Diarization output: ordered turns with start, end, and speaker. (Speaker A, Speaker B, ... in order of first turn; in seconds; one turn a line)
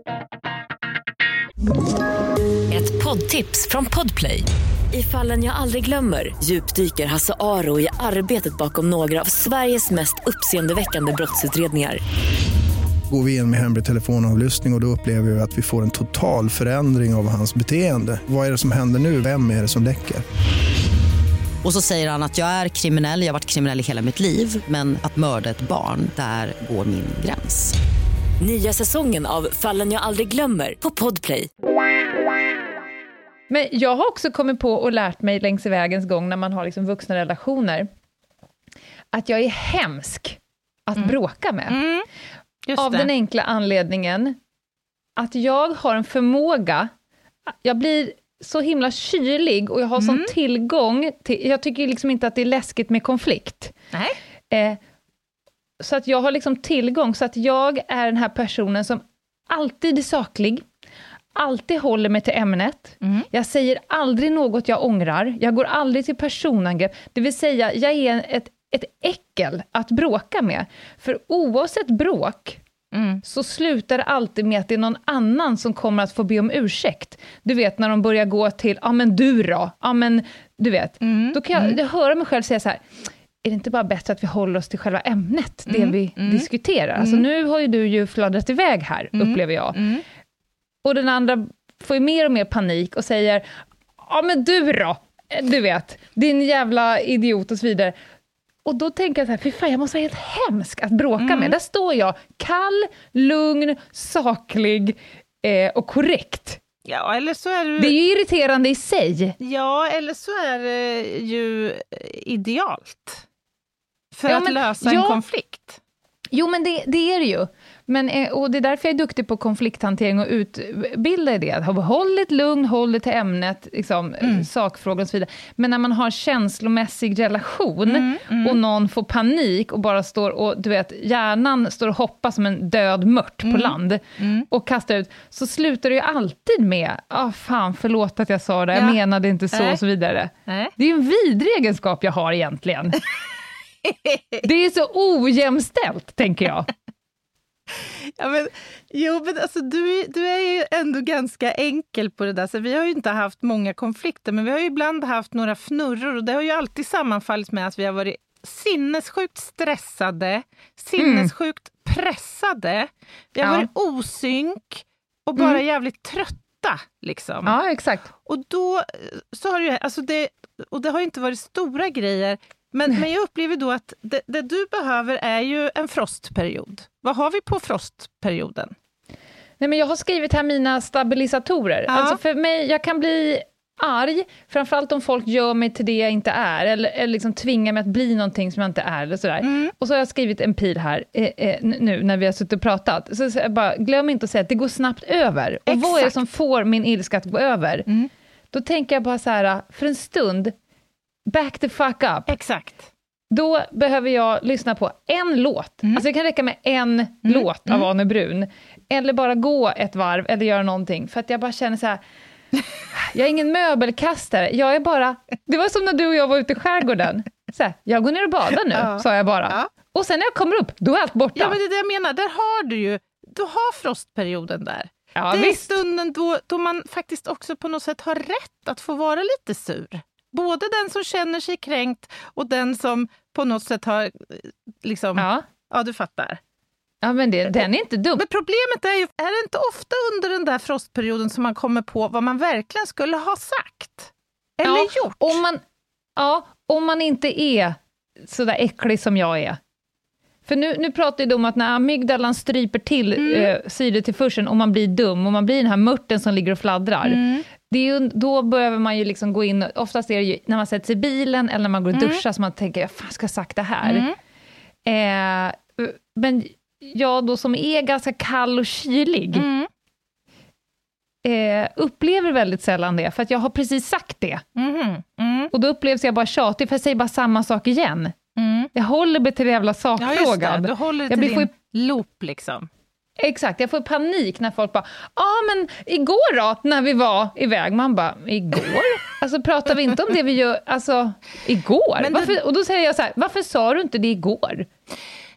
Speaker A: 2.7-12.0
Speaker B: 13.1-20.2
Speaker C: 21.6-27.7
Speaker A: 28.4-31.5
Speaker D: 33.5-37.9
Speaker D: 39.1-41.8
Speaker E: 41.7-42.0
Speaker E: 42.7-43.1
Speaker D: 42.8-44.4
Speaker D: 45.2-46.9
Speaker D: 47.5-53.7
Speaker E: 50.0-50.3
Speaker E: 53.9-54.2
Speaker D: 54.5-54.8
Speaker D: 55.8-60.6
Speaker D: 61.3-72.6
Speaker E: 72.9-73.2
Speaker D: 73.2-89.8
Speaker E: 81.0-81.8
Speaker E: 85.7-86.5
Speaker E: 87.0-87.2
Speaker E: 89.1-90.0
Speaker D: 90.8-97.9
Speaker D: 98.6-106.6
Speaker E: 101.2-101.5
Speaker E: 106.8-107.9
Speaker D: 107.8-109.3
Speaker E: 109.4-113.2
Speaker E: 114.1-115.8
Speaker D: 114.3-115.2
Speaker D: 116.3-143.0
Speaker E: 127.8-128.6
Speaker E: 133.4-134.5
Speaker E: 138.7-139.0
Speaker E: 139.5-139.8
Speaker E: 140.5-140.7
Speaker E: 143.8-144.4
Speaker D: 144.4-146.7
Speaker E: 147.7-167.6
Speaker D: 161.0-161.3
Speaker D: 163.4-163.7
Speaker D: 167.4-168.1
Speaker E: 168.2-178.7
Speaker D: 179.6-197.9
Speaker E: 181.9-182.2
Speaker E: 189.4-189.7
Speaker E: 195.7-196.2
Speaker D: 198.5-200.5
Speaker D: 201.3-202.3
Speaker E: 202.3-202.9
Speaker D: 203.3-212.0
Speaker E: 207.2-207.9
Speaker D: 212.9-221.6
Speaker E: 218.7-219.7
Speaker E: 221.3-236.4
Speaker D: 225.2-225.8
Speaker D: 235.2-235.4
Speaker D: 237.0-238.2
Speaker E: 238.2-245.4
Speaker D: 244.6-245.6
Speaker D: 246.2-249.6
Speaker D: 250.4-264.0
Speaker E: 253.2-253.5
Speaker E: 257.0-257.4
Speaker E: 261.9-262.2
Speaker E: 263.8-264.1
Speaker D: 264.9-269.4
Speaker E: 269.3-269.7
Speaker D: 271.2-274.4
Speaker E: 274.6-275.5
Speaker D: 275.5-278.1
Speaker E: 278.4-278.7
Speaker D: 278.7-281.5
Speaker E: 280.0-282.7
Speaker D: 283.2-294.7
Speaker E: 292.0-292.4